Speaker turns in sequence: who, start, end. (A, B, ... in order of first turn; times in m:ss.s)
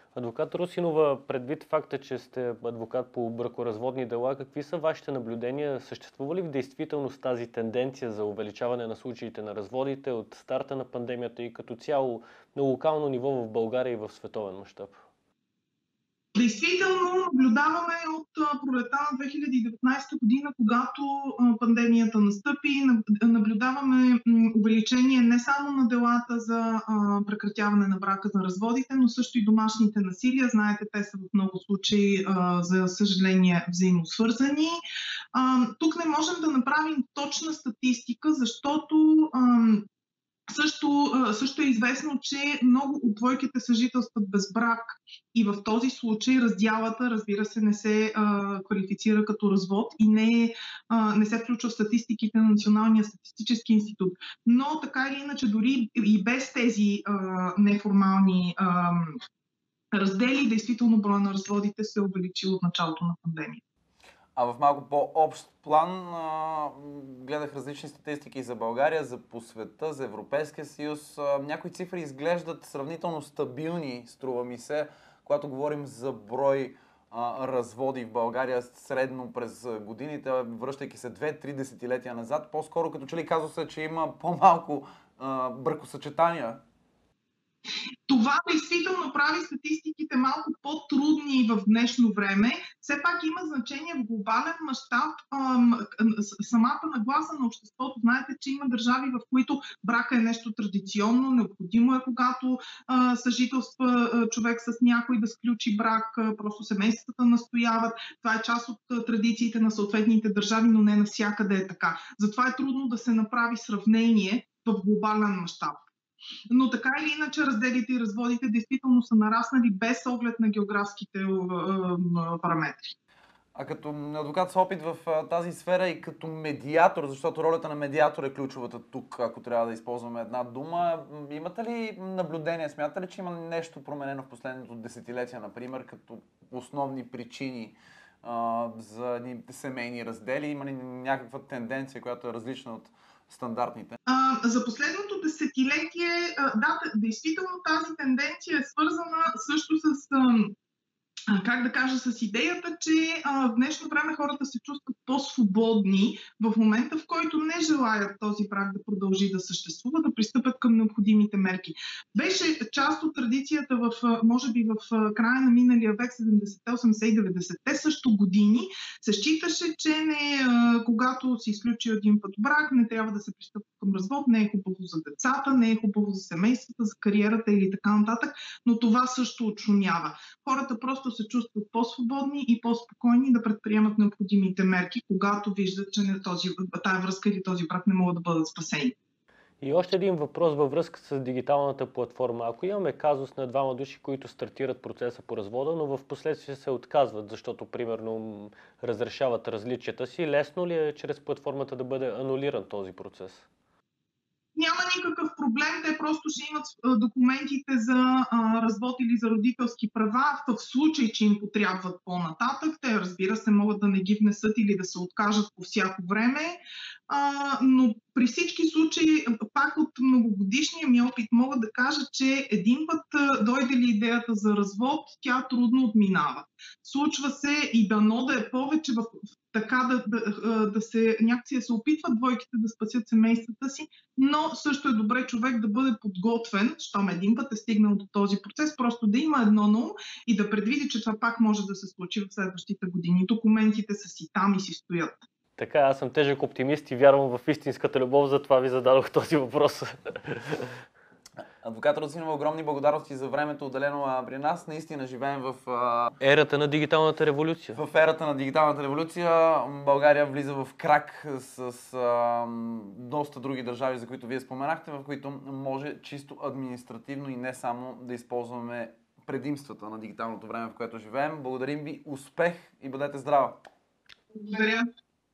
0:00.1-0:15.0 A
0:16.3-0:34.8 B
0:35.3-0:39.9 B
0:40.5-0:59.2 B
0:59.9-1:03.6 B
1:04.4-1:26.6 C
1:28.1-1:55.8 B
1:56.5-2:02.9 B
2:03.5-2:24.0 C
2:24.1-2:30.5 B
2:31.3-3:08.9 B
3:09.6-3:23.4 A
3:24.5-4:05.2 B
4:05.6-4:10.7 A
4:11.6-4:16.2 C
4:16.2-4:17.8 A
4:17.8-4:33.6 C
4:34.3-4:34.8 B